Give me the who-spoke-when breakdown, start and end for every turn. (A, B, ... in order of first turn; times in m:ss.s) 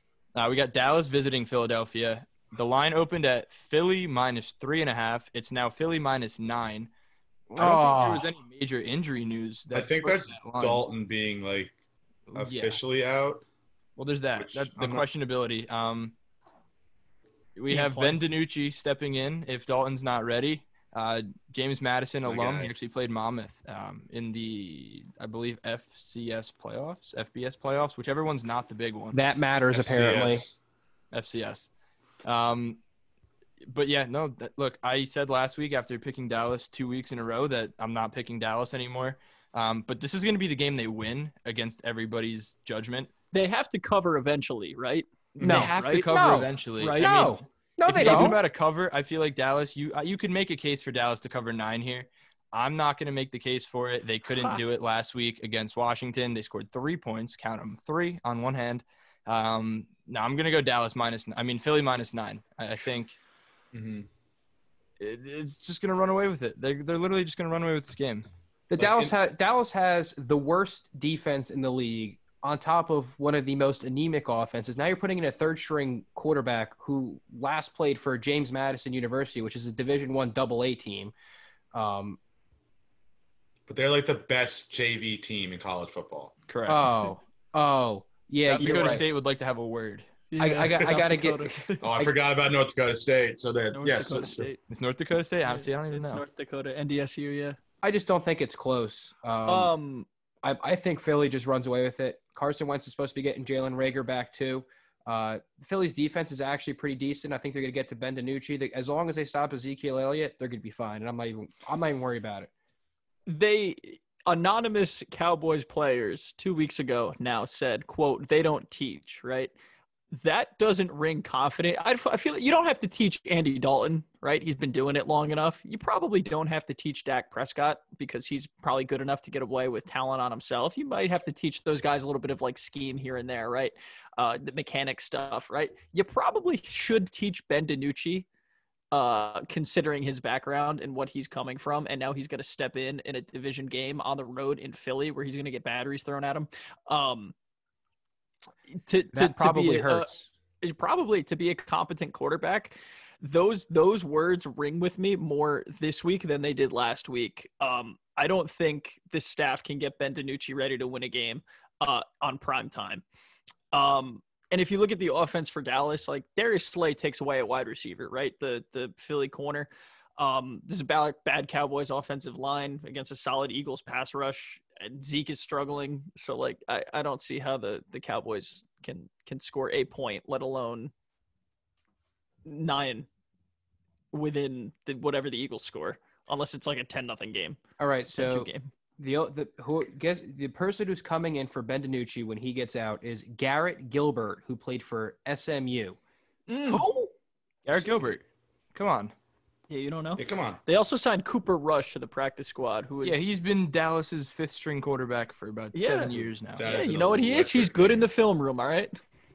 0:00.4-0:06.9 A
0:07.5-0:08.3 B
0:07.5-0:10.8 A
0:09.7-0:11.7 C
0:12.3-0:12.8 A
0:12.3-0:13.4 C
0:14.0-0:16.2 A
0:14.4-0:15.0 C
0:17.6-0:29.2 A
0:17.7-0:18.2 D
0:22.2-0:22.7 C
0:29.1-0:30.4 B
0:29.7-0:30.6 C
0:31.1-0:31.7 A
0:32.2-0:32.8 A
0:33.7-0:43.1 A
0:43.3-0:47.4 D
0:45.4-1:03.2 A
0:45.4-0:48.4 B
0:45.4-0:45.7 C
0:47.9-0:48.4 D
1:03.7-1:04.1 C
1:05.0-1:08.3 A
1:08.7-1:21.1 B
1:08.8-1:09.1 C
1:21.7-1:22.2 B
1:23.7-1:26.3 C
1:26.5-1:26.9 A
1:26.7-1:29.0 B
1:28.4-1:30.1 A
1:28.6-1:29.0 D
1:30.3-1:31.9 D
1:30.4-1:32.1 B
1:31.8-1:34.5 C
1:33.7-1:34.6 D
1:34.7-1:36.2 A
1:35.4-1:37.6 D
1:37.8-1:39.7 B
1:39.5-1:40.1 D
1:40.4-1:52.5 B
1:53.2-1:59.5 D
2:00.1-2:18.2 D
2:18.9-2:27.3 D
2:28.7-2:30.1 D
2:29.1-2:30.3 B
2:30.6-2:43.0 D
2:43.7-3:00.9 D
3:02.4-3:03.1 D
3:04.1-3:07.6 D
3:07.8-3:16.0 B
3:08.1-3:08.7 D
3:16.5-3:17.1 D
3:17.6-3:18.2 A
3:18.7-3:19.1 A
3:19.7-3:23.3 D
3:20.2-3:20.6 C
3:23.0-3:26.7 A
3:25.7-3:29.0 D
3:26.5-3:28.1 C